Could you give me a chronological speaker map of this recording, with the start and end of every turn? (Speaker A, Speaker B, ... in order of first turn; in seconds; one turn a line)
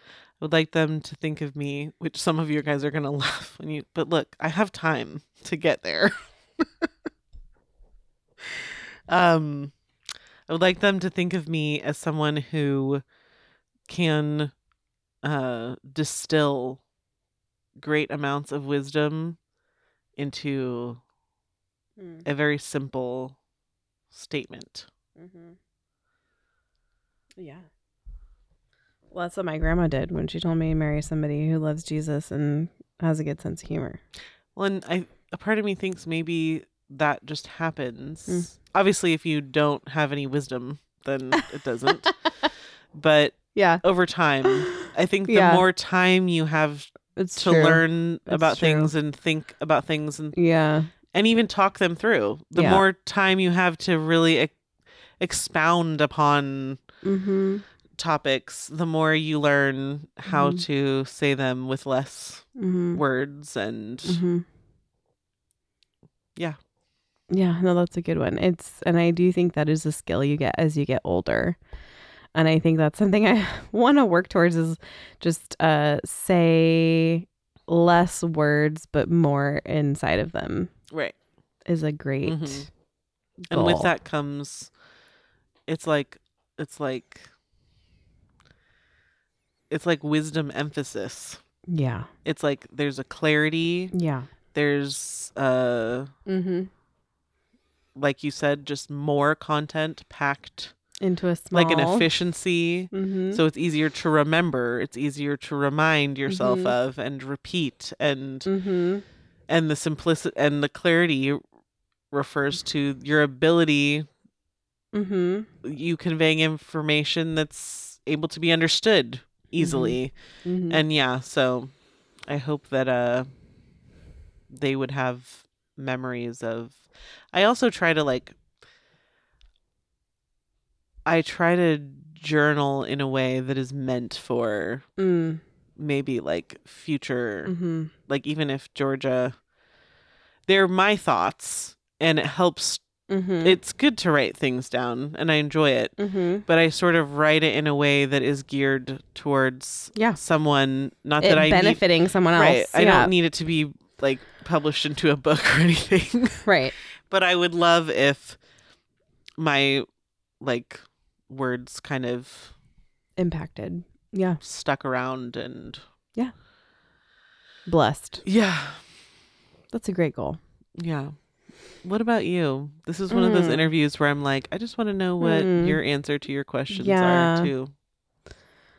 Speaker A: 0.4-6.9
Speaker A: 8.4-9.8
Speaker A: 10.5-13.0
Speaker A: 13.9-14.5
Speaker A: 15.2-16.8
Speaker A: 17.8-19.4
Speaker A: 20.2-21.0
Speaker B: 22.0-22.2
Speaker A: 22.2-23.4
Speaker A: 24.1-24.9
Speaker B: 25.2-25.6
Speaker B: 27.4-27.7
Speaker B: 29.1-34.0
Speaker A: 34.5-42.2
Speaker A: 42.9-50.4
Speaker B: 43.5-43.8
Speaker B: 44.5-45.6
Speaker B: 47.1-48.9
Speaker B: 50.4-50.9
Speaker A: 51.1-54.5
Speaker B: 52.5-52.8
Speaker A: 55.2-56.8
Speaker B: 57.0-57.6
Speaker A: 58.0-64.2
Speaker B: 60.3-60.6
Speaker B: 62.6-63.0
Speaker B: 64.0-64.5
Speaker B: 67.3-71.6
Speaker B: 72.3-80.7
Speaker A: 80.9-81.2
Speaker B: 81.7-82.7
Speaker A: 82.2-82.7
Speaker A: 83.5-84.7
Speaker B: 83.5-83.9
Speaker A: 85.7-87.3
Speaker A: 89.7-91.4
Speaker B: 91.7-92.1
Speaker A: 92.2-93.9
Speaker B: 93.9-94.3
Speaker A: 94.5-96.1
Speaker B: 96.3-96.7
Speaker A: 98.0-100.7
Speaker B: 101.0-102.1
Speaker A: 101.5-108.5
Speaker B: 102.9-103.4
Speaker B: 106.3-106.7
Speaker B: 108.5-109.0
Speaker A: 109.5-111.4
Speaker A: 112.1-114.1
Speaker B: 114.9-115.5
Speaker A: 115.6-120.2
Speaker B: 119.6-120.8
Speaker A: 120.7-121.7
Speaker A: 122.3-123.3
Speaker A: 124.5-128.4
Speaker A: 131.1-134.9
Speaker B: 135.0-135.4
Speaker A: 135.8-137.5
Speaker B: 137.5-137.9
Speaker A: 138.1-139.4
Speaker A: 140.5-142.8
Speaker B: 143.1-143.6
Speaker A: 143.4-145.9
Speaker B: 146.0-146.4
Speaker A: 146.5-151.8
Speaker B: 151.2-153.1
Speaker A: 152.3-156.5
Speaker B: 156.5-156.7
Speaker A: 157.1-158.4
Speaker A: 159.4-159.9
Speaker A: 160.4-162.5
Speaker B: 163.2-164.4
Speaker A: 164.4-165.8
Speaker B: 167.7-168.2
Speaker A: 168.2-168.8
Speaker B: 169.7-170.4
Speaker A: 170.8-171.2
Speaker A: 171.8-177.7
Speaker B: 173.1-173.6
Speaker B: 175.2-175.8
Speaker B: 176.7-177.5